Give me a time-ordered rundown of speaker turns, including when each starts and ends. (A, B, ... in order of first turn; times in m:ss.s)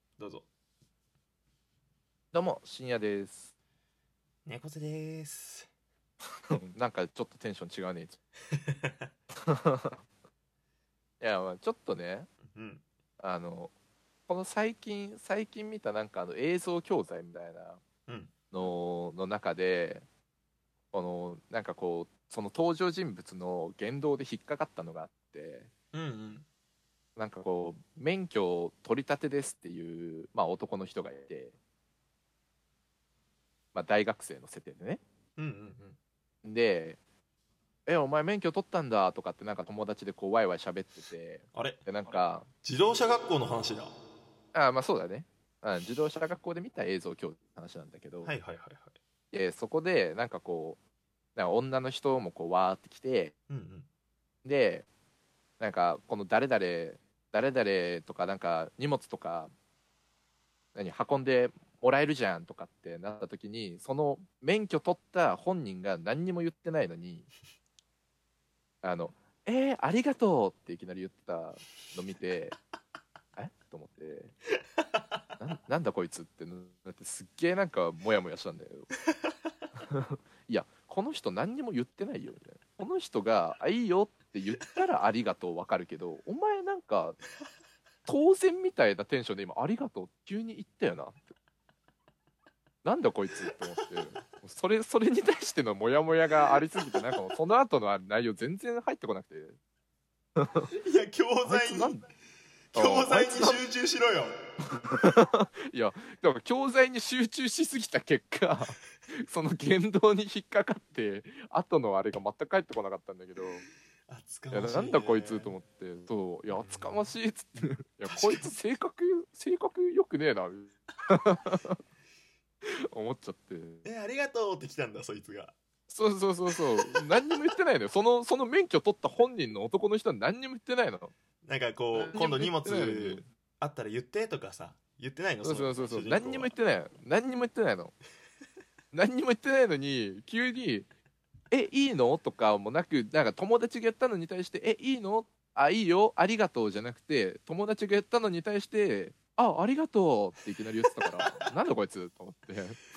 0:00.2-0:00.5 A
0:02.3-0:03.5 B
0:04.4-0:05.7 A
0:06.5-0:08.2 B
0:08.5-0:09.1 A
0:09.4-0:10.0 B
0:11.2-0:12.3 B
0:12.5-0:12.8 A
0:13.2-0:13.7 B
0:14.3-0:17.8 B
0:18.1-0:18.3 A
0:18.5-0:20.1 B
0:20.9-0:25.7 B
0:25.9-0:26.5 A
0:27.2-0:31.6 B
0:33.7-0:35.0 B
0:35.4-0:36.0 A
0:36.4-0:37.0 B
0:37.9-0:42.5 B
0:41.5-0:41.8 A
0:42.6-0:44.0 A
0:44.5-0:48.3 B
0:48.2-0:49.0 A
0:49.3-0:50.8 B
0:51.4-0:53.3 B
0:53.5-0:53.9 A
0:54.4-0:54.9 B
0:55.6-0:59.5 B
1:00.8-1:07.3 B
1:08.8-1:12.6 B
1:13.4-1:14.4 B
1:15.4-1:18.9 B
1:19.8-1:27.2 B
1:28.1-1:31.4 B
1:32.8-1:39.6 B
1:40.4-1:40.7 B
1:40.8-1:42.0 A
1:41.4-1:42.1 B
1:42.7-1:44.3 A
1:42.7-1:43.6 B
1:44.7-1:53.6 B
1:54.1-1:55.6 A
1:54.5-2:01.8 B
1:56.5-1:57.1 A
1:58.0-1:58.5 A
2:02.9-2:03.8 B
2:03.8-2:05.6 A
2:05.9-2:11.1 B
2:11.4-2:16.5 A
2:11.9-2:13.3 B
2:15.4-2:18.0 B
2:18.9-2:20.9 B
2:21.5-2:32.8 B
2:31.0-2:31.4 A